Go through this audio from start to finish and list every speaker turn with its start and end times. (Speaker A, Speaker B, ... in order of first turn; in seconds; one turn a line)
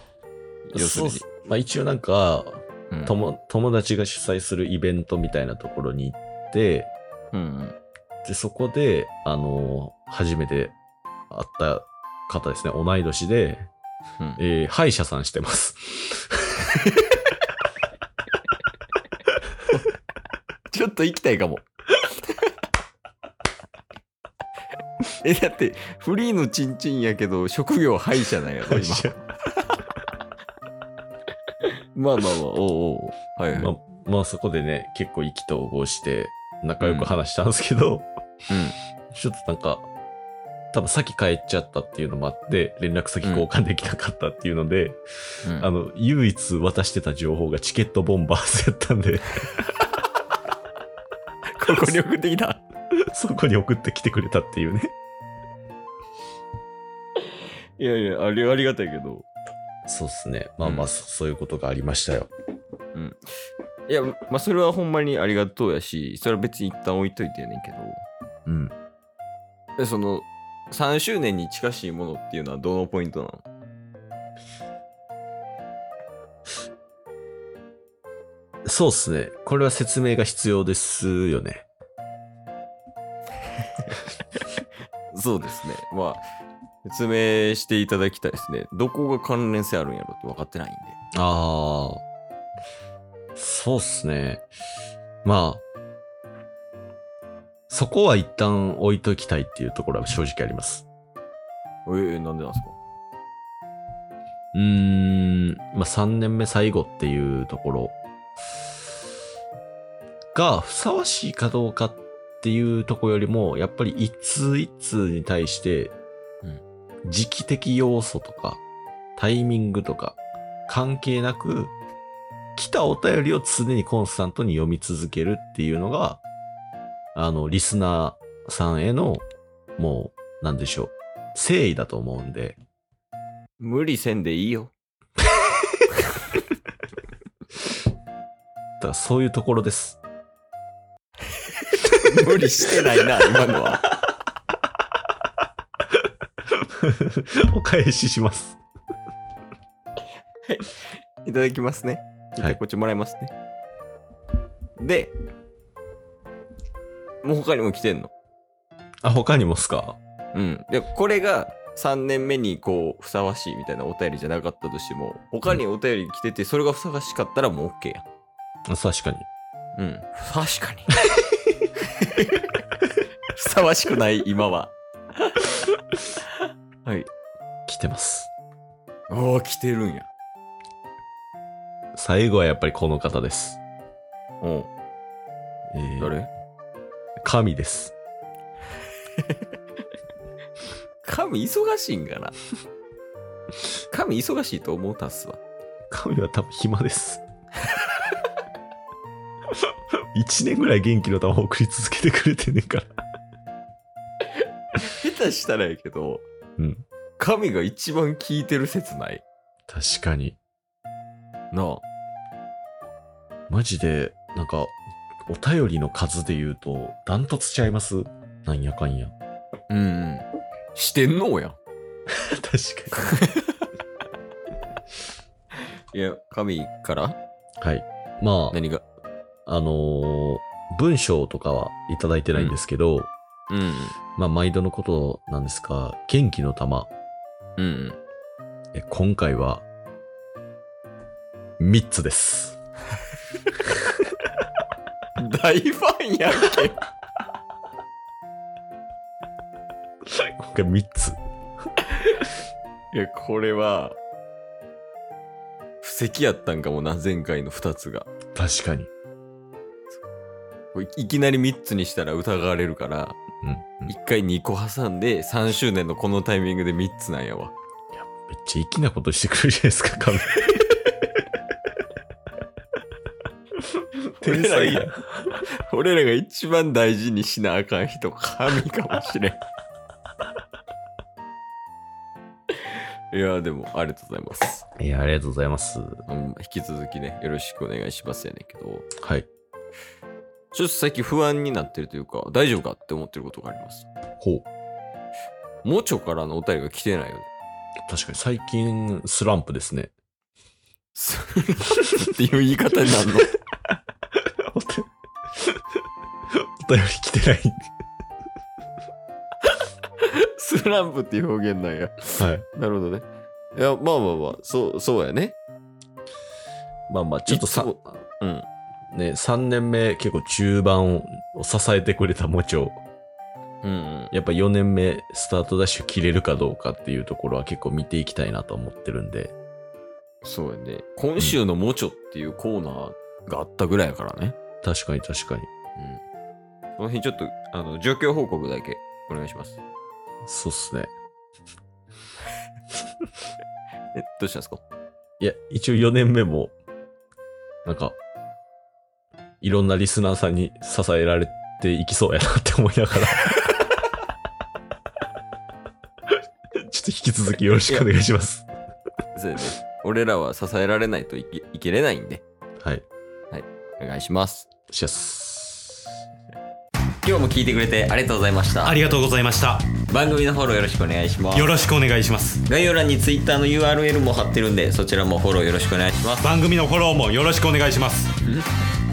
Speaker A: 0.7-1.2
Speaker B: 0.7-6.9
Speaker A: 7.3-7.8
Speaker B: 8.2-10.8
Speaker B: 11.3-13.7
Speaker B: 14.4-16.7
Speaker A: 17.0-17.2
Speaker A: 20.7-21.7
Speaker A: 22.3-22.5
Speaker A: 25.2-29.2
Speaker B: 28.7-29.2
Speaker A: 31.6-33.7
Speaker B: 33.5-38.1
Speaker A: 36.8-37.1
Speaker A: 38.5-38.8
Speaker B: 39.1-39.9
Speaker B: 40.7-45.0
Speaker A: 45.4-45.7
Speaker B: 45.5-49.5
Speaker A: 51.6-52.6
Speaker B: 53.1-54.9
Speaker A: 57.8-59.3
Speaker B: 59.9-62.3
Speaker A: 60.6-60.9
Speaker A: 63.0-63.2
Speaker A: 63.9-68.0
Speaker B: 68.5-68.7
Speaker A: 69.8-73.5
Speaker B: 78.7-81.7
Speaker A: 85.1-86.2
Speaker A: 86.8-91.0
Speaker B: 91.1-92.0
Speaker B: 93.4-94.5
Speaker B: 95.2-95.6
Speaker B: 97.7-100.9
Speaker A: 101.9-102.8
Speaker B: 104.5-108.0
Speaker B: 110.3-116.0
Speaker B: 117.1-118.6
Speaker B: 119.2-121.7
Speaker B: 122.6-126.2
Speaker B: 127.2-129.2
Speaker B: 129.8-132.6
Speaker A: 133.6-134.7
Speaker B: 138.8-140.0
Speaker A: 141.9-143.9
Speaker B: 146.5-148.6
Speaker A: 150.5-153.3
Speaker A: 154.8-155.1
Speaker A: 157.2-158.1
Speaker B: 159.0-160.0
Speaker A: 160.3-168.1
Speaker B: 168.7-169.3
Speaker A: 169.8-170.9
Speaker A: 171.8-172.6
Speaker A: 173.3-175.7
Speaker A: 176.8-177.1
Speaker B: 177.7-178.3
Speaker A: 179.1-180.1
Speaker B: 182.0-183.6
Speaker A: 184.4-184.7
Speaker B: 185.7-186.1
Speaker A: 186.0-186.3
Speaker B: 187.2-187.9
Speaker A: 189.2-189.4
Speaker A: 191.0-192.3
Speaker A: 193.9-195.4
Speaker B: 195.9-197.2
Speaker B: 200.1-202.9
Speaker A: 204.8-206.2
Speaker B: 206.6-206.8
Speaker A: 207.2-209.2
Speaker B: 209.7-210.4
Speaker A: 211.5-211.8
Speaker B: 213.5-219.1
Speaker A: 219.7-221.6
Speaker B: 222.2-223.2
Speaker A: 223.0-223.7
Speaker A: 225.9-227.2
Speaker B: 227.6-228.6
Speaker A: 228.5-228.8
Speaker B: 229.5-233.1
Speaker A: 233.5-234.0
Speaker B: 234.2-236.9
Speaker A: 237.6-238.0
Speaker B: 238.7-239.7
Speaker B: 241.6-242.6
Speaker A: 245.2-246.8
Speaker B: 250.2-251.2
Speaker A: 252.9-254.0
Speaker A: 255.8-258.1
Speaker B: 258.4-258.9
Speaker A: 260.7-263.2
Speaker B: 263.4-263.9
Speaker A: 263.9-267.6
Speaker B: 267.9-270.6
Speaker B: 274.2-275.0
Speaker A: 274.2-279.4
Speaker A: 282.7-284.6
Speaker B: 284.8-286.0
Speaker A: 286.1-288.9
Speaker B: 289.0-289.3
Speaker A: 290.5-293.9
Speaker B: 294.2-294.5
Speaker A: 295.6-297.3
Speaker B: 297.9-299.9
Speaker A: 300.9-303.4
Speaker B: 304.2-305.6
Speaker B: 306.3-307.7
Speaker A: 310.0-315.4
Speaker B: 312.2-312.4
Speaker B: 316.9-318.1
Speaker A: 317.3-318.5
Speaker B: 318.9-322.8
Speaker A: 323.6-324.1
Speaker B: 324.1-329.3
Speaker A: 330.2-334.4
Speaker B: 334.6-335.5
Speaker A: 335.8-336.0
Speaker A: 336.8-339.6
Speaker B: 340.3-340.9
Speaker A: 343.9-344.6
Speaker B: 345.2-346.6
Speaker B: 347.6-348.0
Speaker B: 349.4-353.4
Speaker B: 356.6-358.5
Speaker A: 359.1-362.2
Speaker A: 363.3-364.5
Speaker B: 364.7-365.9
Speaker A: 367.0-368.8
Speaker C: 368.6-369.7
Speaker A: 369.9-371.5
Speaker C: 371.3-372.4
Speaker A: 372.4-376.3
Speaker C: 376.2-378.1